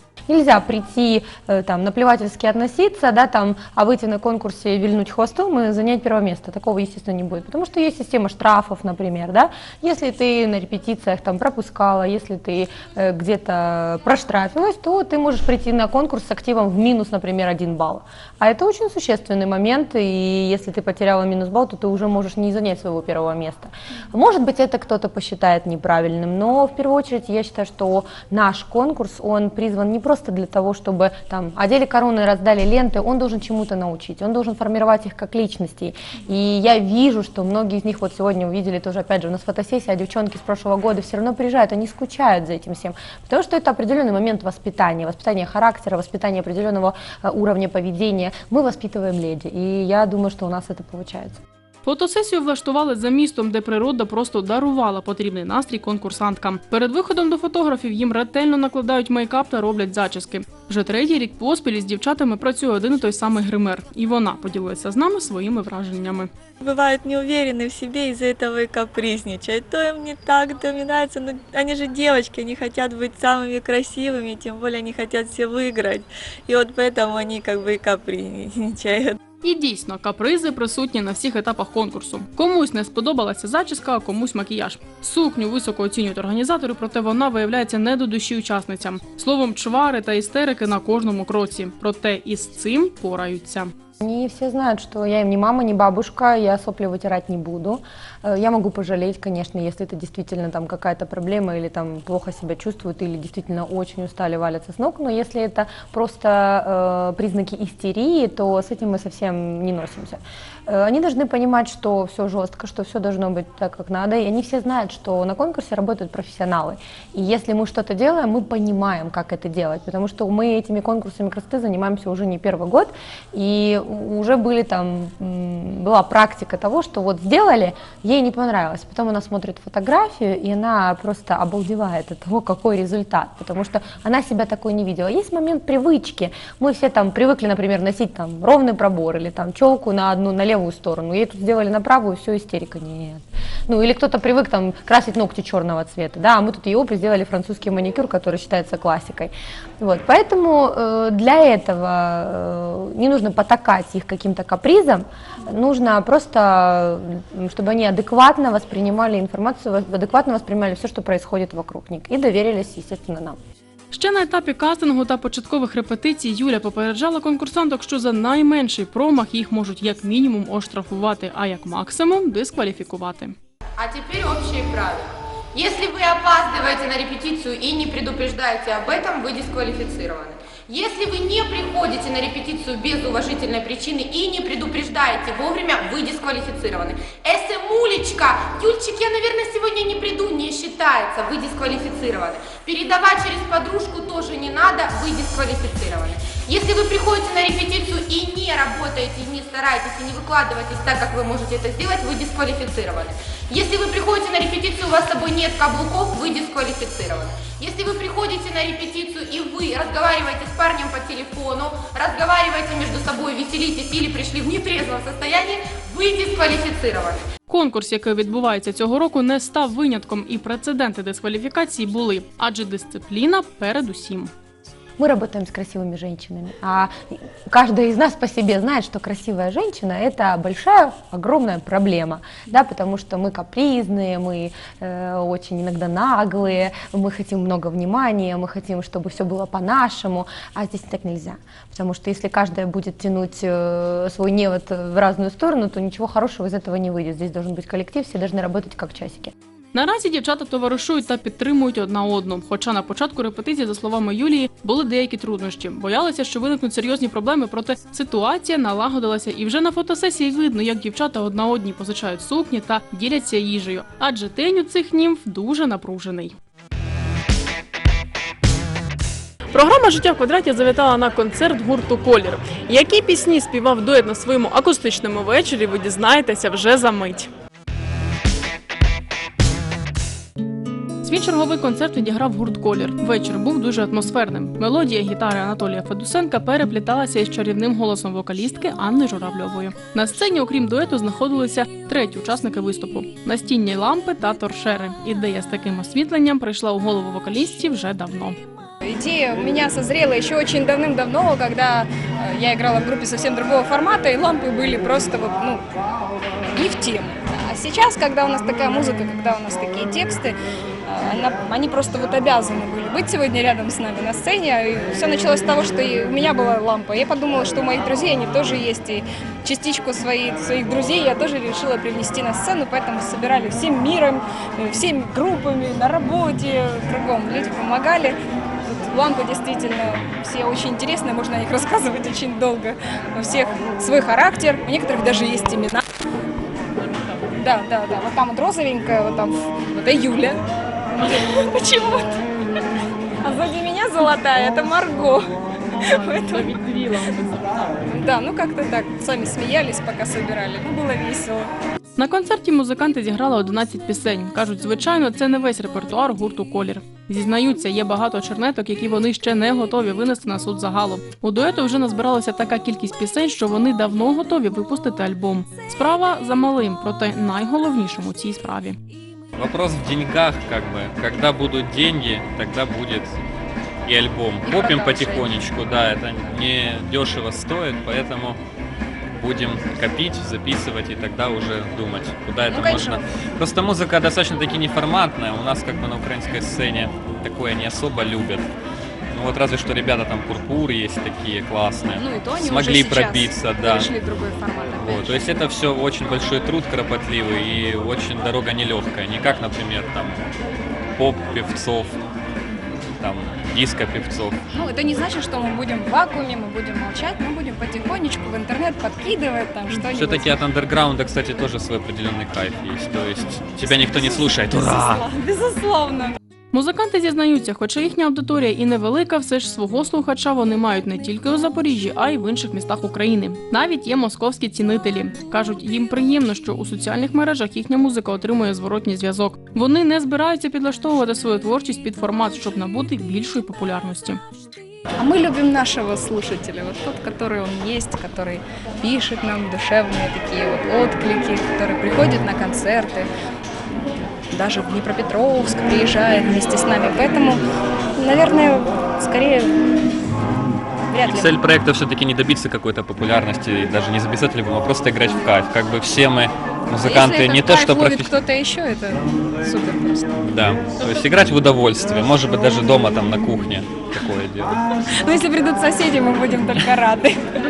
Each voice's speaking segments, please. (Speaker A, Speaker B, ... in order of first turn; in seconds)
Speaker A: 0.3-51.4, 94.0-163.4, 173.8-175.0, 175.6-180.0, 180.8-188.9, 189.4-217.2, 225.0-249.3
Speaker B: 51.8-66.3, 79.4-93.7, 163.9-173.3, 217.5-224.3, 249.7-266.4, 269.5-277.3, 281.0-298.4, 351.9-368.8, 416.5-434.2
Speaker C: 66.6-79.2
Speaker D: 173.9-175.0, 175.7-203.0, 203.5-217.1
Speaker E: 298.8-305.6, 306.5-310.3, 310.9-335.8, 337.3-340.4, 340.9-342.1, 343.2-351.5, 374.4-375.3, 382.5-383.0, 391.9-395.4, 404.5-410.3, 413.6-416.1, 435.0-443.1, 444.3-447.4, 448.0-449.5, 450.9-451.4, 456.8-460.1, 464.9-467.2
Speaker F: 369.4-373.2, 373.8-378.4, 379.2-388.5, 389.1-393.9, 394.7-400.2, 400.9-402.0, 403.0-404.4, 409.7-415.1, 451.0-458.1, 460.2-464.6